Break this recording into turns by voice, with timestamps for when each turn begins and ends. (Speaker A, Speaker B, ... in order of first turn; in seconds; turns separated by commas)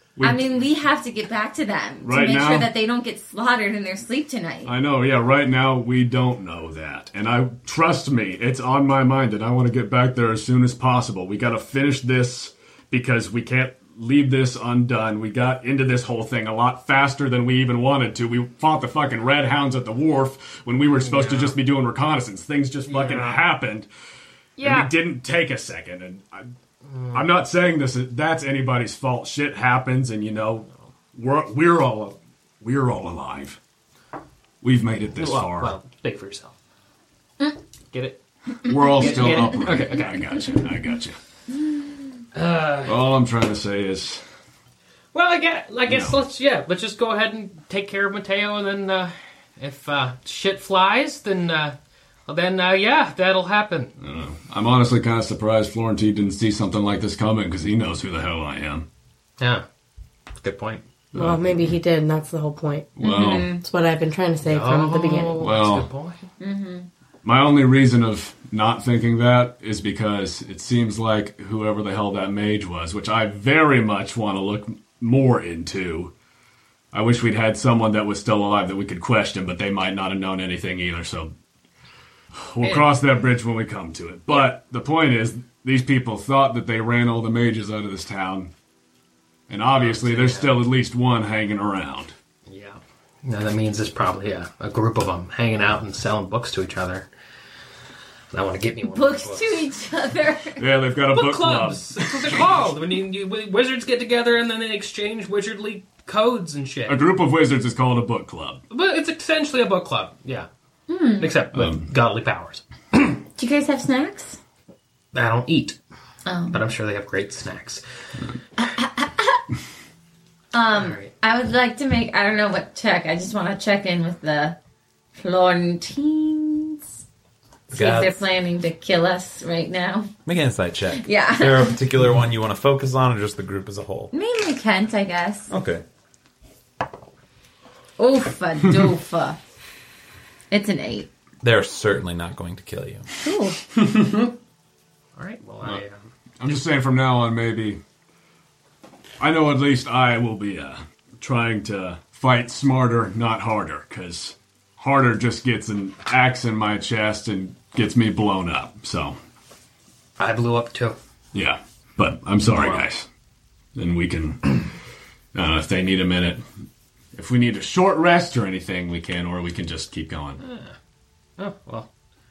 Speaker A: 0.2-0.5, Speaker B: 0.2-4.7, Speaker A: 2.0-2.7, Speaker A: 4.7-23.9, Speaker C: 21.0-21.6, Speaker C: 22.9-23.4, Speaker C: 24.6-24.9, Speaker A: 24.6-26.5, Speaker C: 26.9-27.3, Speaker A: 27.1-33.6, Speaker A: 34.6-35.8, Speaker C: 35.2-36.5, Speaker C: 37.9-38.2, Speaker A: 38.6-41.2, Speaker B: 38.7-39.1, Speaker C: 38.8-40.5, Speaker C: 42.3-43.1, Speaker A: 42.9-44.2, Speaker C: 45.1-51.8, Speaker A: 45.9-46.2, Speaker C: 52.3-53.9, Speaker A: 54.0-58.9, Speaker C: 59.4-59.6, Speaker C: 60.4-60.9, Speaker A: 61.1-61.8, Speaker D: 61.1-63.0, Speaker A: 63.0-63.5, Speaker B: 63.0-63.6, Speaker D: 63.6-65.5, Speaker C: 64.4-66.3, Speaker A: 65.4-65.9, Speaker B: 66.4-66.9, Speaker A: 67.2-76.1, Speaker A: 76.9-81.3, Speaker A: 82.3-88.5, Speaker C: 82.6-82.9, Speaker A: 89.5-92.1, Speaker C: 89.7-90.6, Speaker C: 92.5-97.1, Speaker C: 98.3-99.7, Speaker B: 98.9-100.6, Speaker A: 100.6-102.4, Speaker C: 101.1-107.0, Speaker A: 106.9-108.6, Speaker C: 108.7-110.5, Speaker B: 110.9-111.3, Speaker C: 111.2-112.6, Speaker A: 111.5-111.9, Speaker B: 113.4-114.4, Speaker C: 115.1-115.8, Speaker B: 116.3-116.6, Speaker C: 116.5-117.8, Speaker B: 118.6-119.4, Speaker B: 120.5-124.6, Speaker C: 120.7-121.1, Speaker B: 125.2-126.8, Speaker B: 127.7-130.1, Speaker E: 127.7-128.2, Speaker E: 130.3-134.1, Speaker B: 130.9-131.8, Speaker B: 134.1-135.5, Speaker E: 135.5-135.8, Speaker B: 138.0-139.4, Speaker B: 140.5-141.1, Speaker E: 141.4-143.1, Speaker B: 143.2-143.6, Speaker A: 143.8-144.3, Speaker C: 145.2-146.1, Speaker A: 146.4-147.8, Speaker A: 149.2-159.2, Speaker C: 160.2-161.0, Speaker A: 161.3-163.1, Speaker C: 162.4-162.9, Speaker A: 163.8-164.7, Speaker A: 165.3-166.4, Speaker A: 167.1-170.4, Speaker C: 170.4-170.8, Speaker C: 171.4-171.9